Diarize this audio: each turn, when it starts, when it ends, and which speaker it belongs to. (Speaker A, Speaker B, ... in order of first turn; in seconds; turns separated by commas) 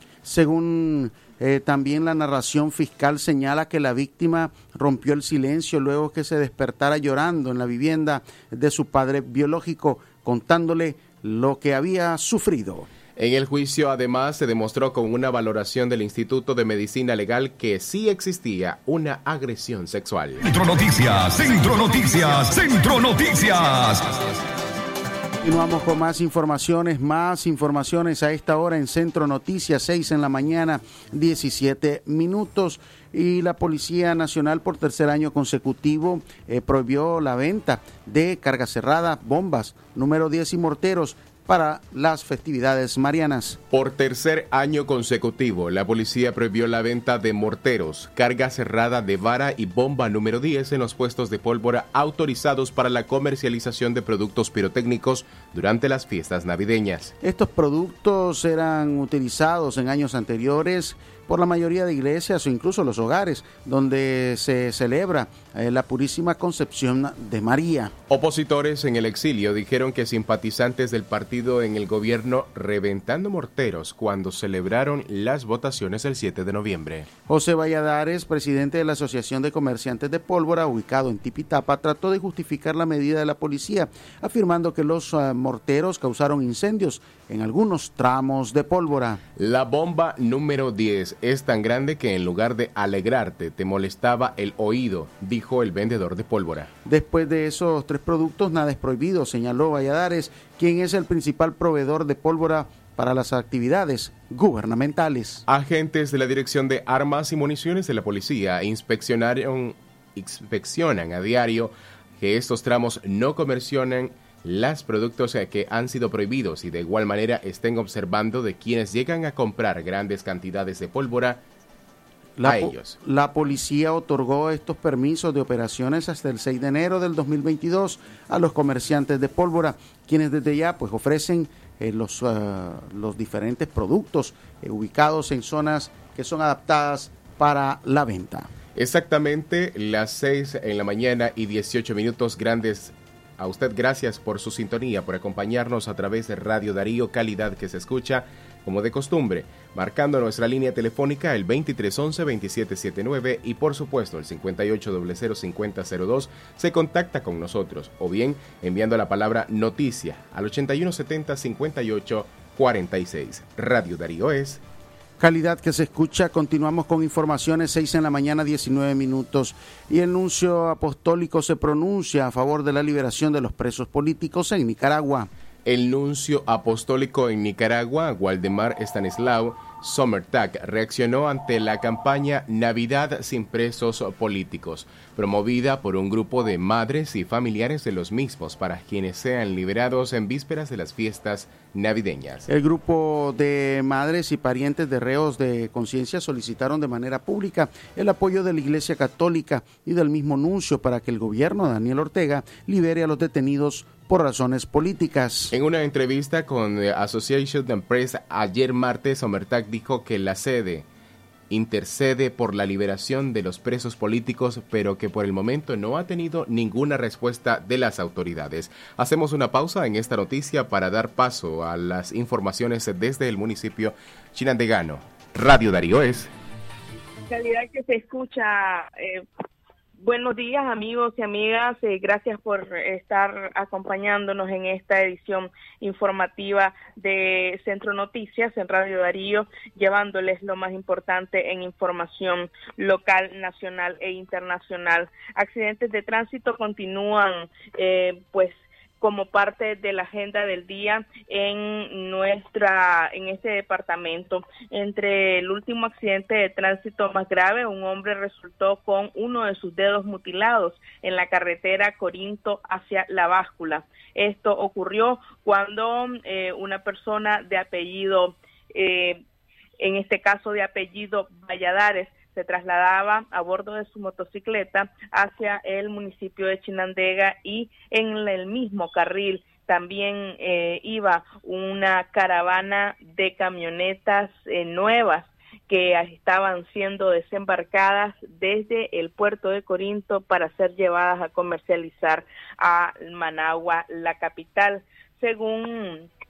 Speaker A: 0.2-12.9, Speaker B: 13.2-20.4, Speaker C: 20.4-24.2, Speaker A: 25.4-43.6, Speaker B: 43.7-57.1, Speaker A: 57.2-67.9, Speaker B: 68.1-77.1, Speaker A: 77.3-89.2, Speaker B: 89.4-96.7, Speaker A: 96.8-105.5, Speaker B: 105.5-121.4, Speaker A: 122.4-138.5, Speaker B: 122.4-123.0, Speaker B: 138.8-164.6, Speaker A: 165.2-175.3, Speaker B: 175.7-192.5, Speaker A: 192.5-205.5, Speaker B: 205.5-210.9, Speaker B: 211.5-226.3, Speaker D: 227.3-229.2, Speaker D: 230.0-269.2, Speaker D: 269.8-296.1